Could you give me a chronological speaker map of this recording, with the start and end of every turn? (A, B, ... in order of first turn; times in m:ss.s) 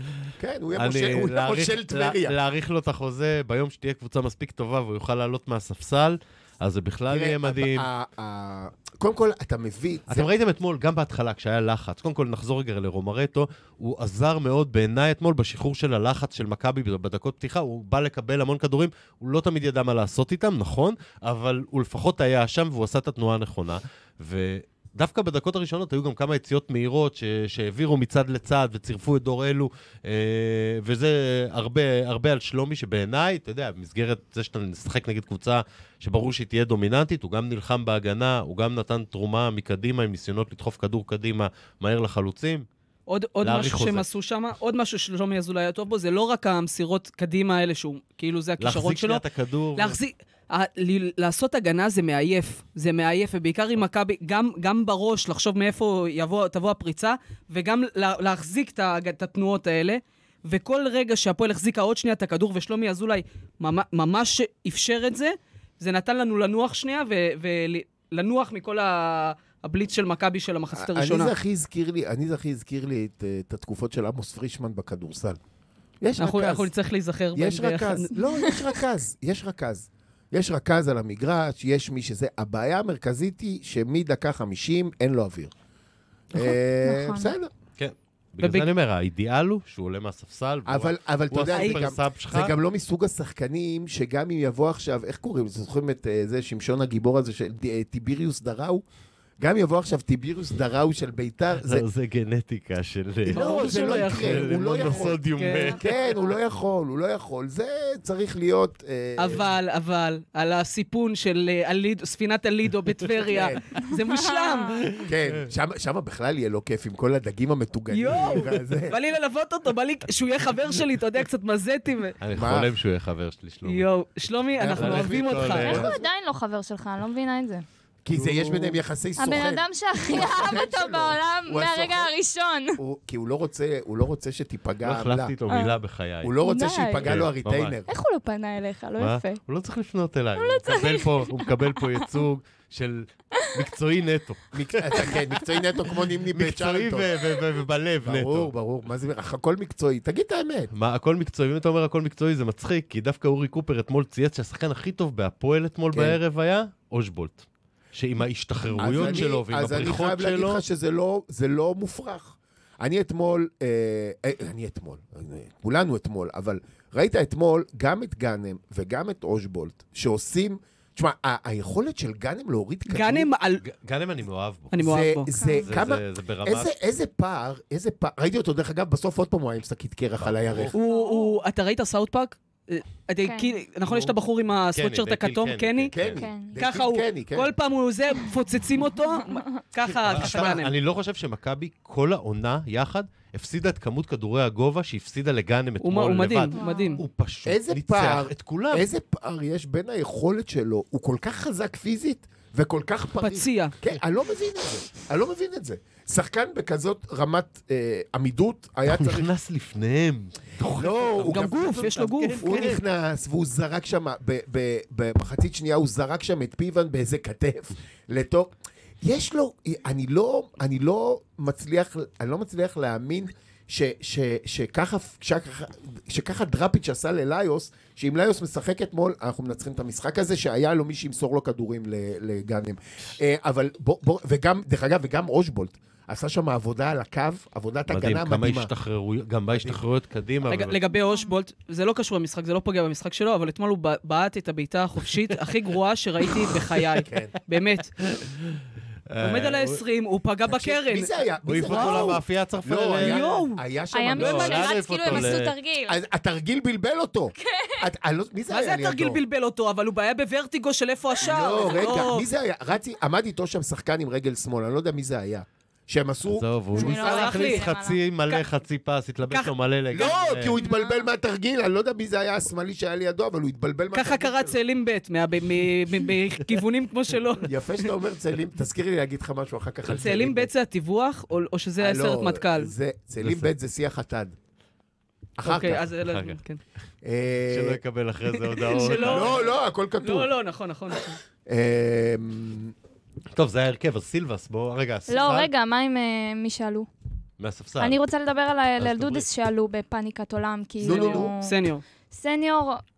0:00.4-0:02.4 A
0:00.8-0:07.8 B
0:07.1-0:10.3 A
0:10.1-0:42.6 B
0:43.1-0:49.2 C
0:43.4-0:44.0 B
0:48.6-0:50.0 B
0:49.8-1:11.3 C
1:10.7-1:15.4 A
1:16.0-1:16.7 A
1:16.2-1:18.2 C
1:17.3-1:25.5 A
1:26.3-1:27.5 A
1:26.3-1:27.3 D
1:27.8-1:32.5 B
1:28.4-1:28.7 C
1:30.6-1:38.8 A
1:31.5-1:31.8 C
1:39.4-1:41.8 A
1:41.6-1:45.8 B
1:43.3-1:45.2 A
1:43.3-1:45.8 C
1:45.8-1:49.4 A
1:49.2-1:54.8 C
1:53.3-1:53.6 A
1:53.8-1:54.8 D
1:54.9-1:55.4 B
1:55.0-1:59.0 A
1:57.9-2:02.2 C
2:02.2-2:03.8 B
2:02.3-2:02.7 A
2:03.6-2:05.8 C
2:04.6-2:06.1 A
2:04.7-2:05.9 B
2:05.6-2:07.6 D
2:08.0-2:12.1 A
2:08.1-2:08.8 B
2:09.2-2:12.8 D
2:12.8-2:15.4 A
2:14.8-2:16.3 B
2:15.5-2:15.8 D
2:16.2-2:17.8 A
2:16.4-2:17.1 D
2:17.0-2:17.8 B
2:17.8-2:19.4 D
2:19.0-2:25.2 B
2:20.4-2:22.2 D
2:24.5-2:27.2 A
2:26.3-2:28.5 B
2:28.0-2:30.7 A
2:30.7-2:40.6 B
2:35.9-2:36.2 A
2:38.8-2:53.3 A
2:52.9-2:53.6 C
2:53.6-2:54.7 B
2:54.7-2:55.3 C
2:54.8-3:00.7 A
2:55.4-2:55.7 D
2:55.6-2:56.7 B
3:00.2-3:00.7 B
3:00.7-3:05.9 C
3:00.8-3:01.4 D
3:03.2-3:03.6 D
3:03.9-3:04.1 B
3:04.8-3:06.2 B
3:05.9-3:07.5 A
3:06.2-3:06.6 D
3:06.6-3:10.7 C
3:09.0-3:09.4 D
3:09.9-3:18.8 B
3:15.8-3:17.0 C
3:16.5-3:17.0 D
3:17.4-3:29.3 A
3:23.2-3:23.8 C
3:28.9-3:32.8 B
3:30.7-3:58.7 A
3:31.2-3:32.8 C
3:57.9-4:00.8 B
3:59.5-3:59.8 A
4:00.4-4:07.9 C
4:00.9-4:01.3 D
4:07.0-4:07.3 A
4:08.2-4:08.6 B
4:09.1-4:09.8 B
4:09.2-4:12.2 C
4:10.5-4:19.2 A
4:11.4-4:13.2 B
4:13.0-4:13.6 C
4:13.9-4:16.0 D
4:14.2-4:15.5 B
4:14.2-4:14.5 C
4:17.4-4:17.8 D
4:18.5-4:22.2 C
4:21.2-4:27.3 A
4:26.3-4:30.5 B
4:26.7-4:28.0 D
4:26.8-4:27.6 C
4:29.2-4:30.2 C
4:29.9-4:34.6 A
4:30.6-4:31.1 D
4:33.9-4:37.5 C
4:37.4-4:40.5 A
4:40.0-4:42.7 C
4:41.8-4:44.3 A
4:43.2-4:43.5 B
4:45.4-4:45.9 A
4:45.4-4:46.6 C
4:45.9-4:46.4 B
4:47.0-4:47.8 A
4:47.5-4:49.4 B
4:48.5-4:51.2 C
4:49.0-4:50.3 A
4:51.4-4:52.7 A
4:53.3-4:55.5 B
4:55.1-4:56.9 D
4:57.4-4:58.0 B
4:57.8-5:01.6 D
4:58.8-4:59.3 B
5:00.8-5:01.3 A
5:00.8-5:01.8 C
5:02.1-5:02.8 D